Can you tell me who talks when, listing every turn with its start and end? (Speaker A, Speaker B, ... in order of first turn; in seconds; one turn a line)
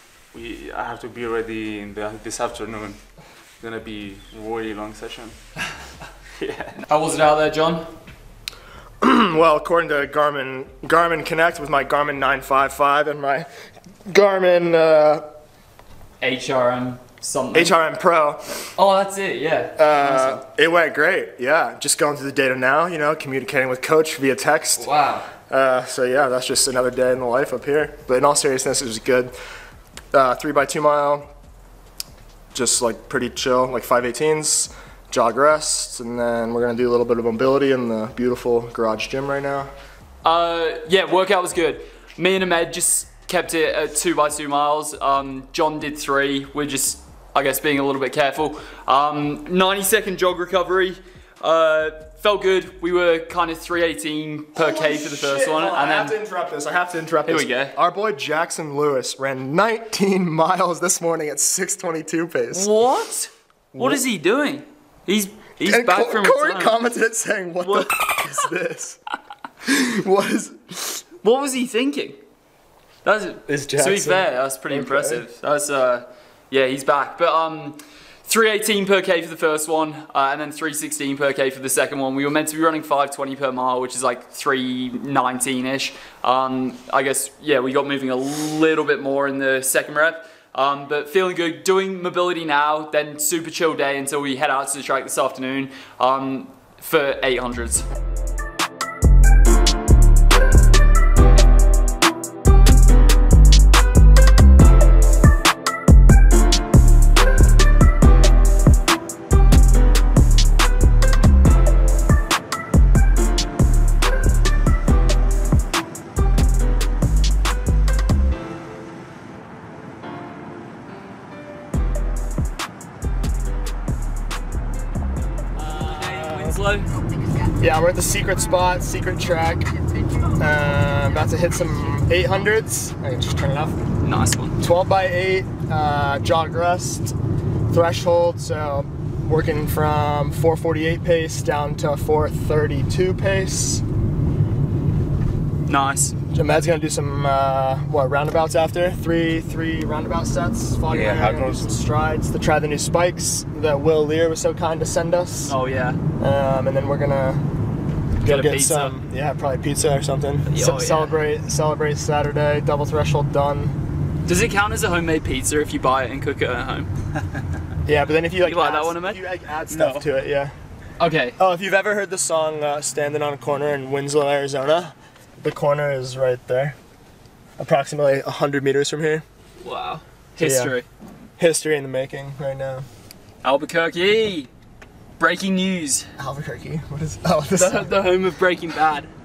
Speaker A: 0.3-3.0
Speaker A: 3.6-5.4
Speaker A: 6.4-6.8
Speaker B: 6.8-7.9
Speaker C: 9.0-13.5
Speaker C: 14.1-15.2
Speaker B: 16.2-17.8
Speaker C: 17.5-18.6
Speaker B: 18.7-20.4
Speaker C: 19.8-24.9
Speaker B: 24.8-25.3
Speaker C: 25.5-29.3
Speaker C: 30.1-31.3
Speaker C: 32.5-39.7
Speaker B: 40.2-56.1
Speaker C: 54.5-62.7
Speaker B: 57.3-57.8
Speaker B: 62.5-66.8
Speaker C: 63.7-64.0
Speaker C: 65.6-69.0
Speaker B: 67.6-67.9
Speaker C: 69.6-70.8
Speaker B: 71.0-72.2
Speaker B: 73.0-97.8
Speaker C: 73.5-75.2
Speaker B: 125.5-126.9
Speaker C: 125.7-126.5
Speaker C: 127.5-133.8
Speaker B: 134.0-134.6
Speaker C: 134.6-137.2
Speaker C: 137.7-143.8
Speaker B: 145.7-146.2
Speaker C: 146.3-155.6
Speaker A: 150.9-151.8
Speaker B: 155.4-156.0
Speaker C: 156.2-157.4
Speaker B: 158.2-158.9
Speaker C: 158.2-163.8
Speaker B: 160.5-161.2
Speaker B: 164.2-166.9
Speaker C: 167.9-170.6
Speaker B: 168.4-169.2
Speaker A: 169.7-170.1
Speaker B: 171.0-171.4
Speaker C: 171.4-176.8
Speaker C: 177.6-179.2
Speaker B: 179.6-180.9
Speaker C: 180.4-180.8
Speaker C: 181.4-182.9
Speaker B: 183.4-184.5
Speaker B: 185.2-186.1
Speaker C: 186.2-187.9
Speaker B: 187.5-189.1